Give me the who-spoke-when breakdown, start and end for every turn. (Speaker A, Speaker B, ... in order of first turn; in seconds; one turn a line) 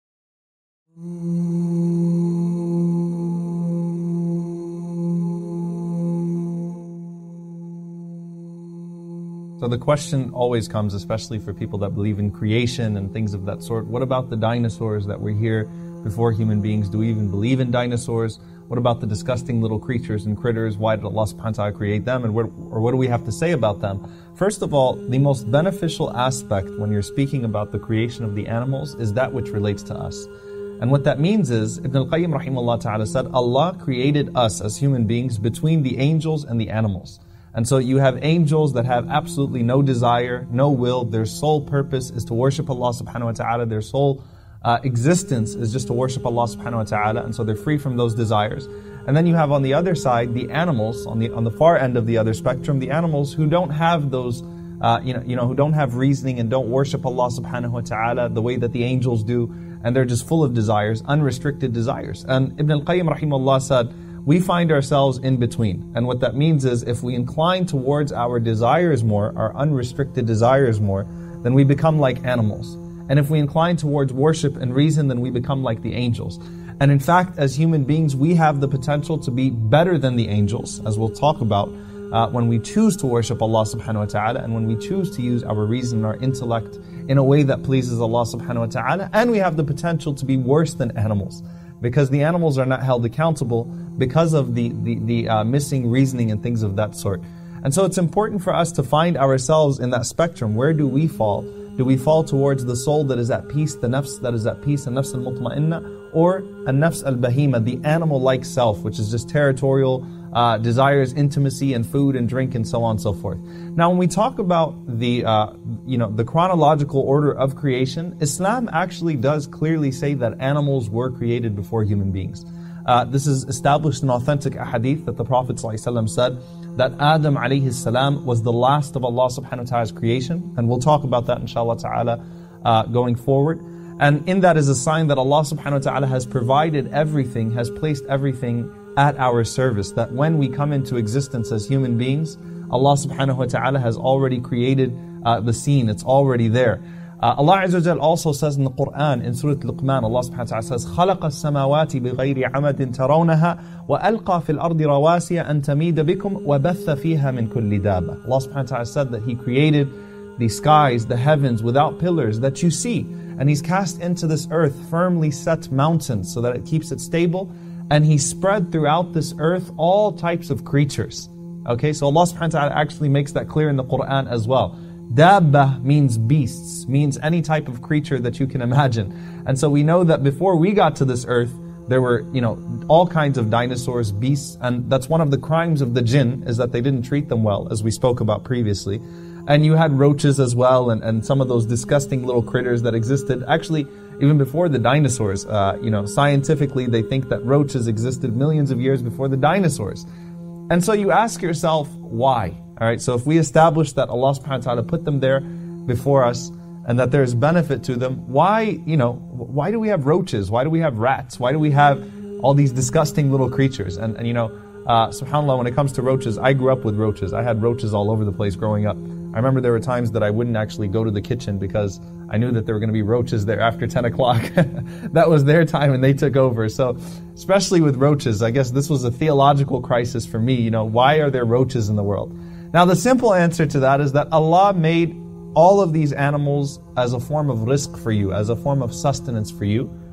Speaker A: 9.6-30.3
Speaker A: 30.8-200.1
Speaker A: 200.7-239.9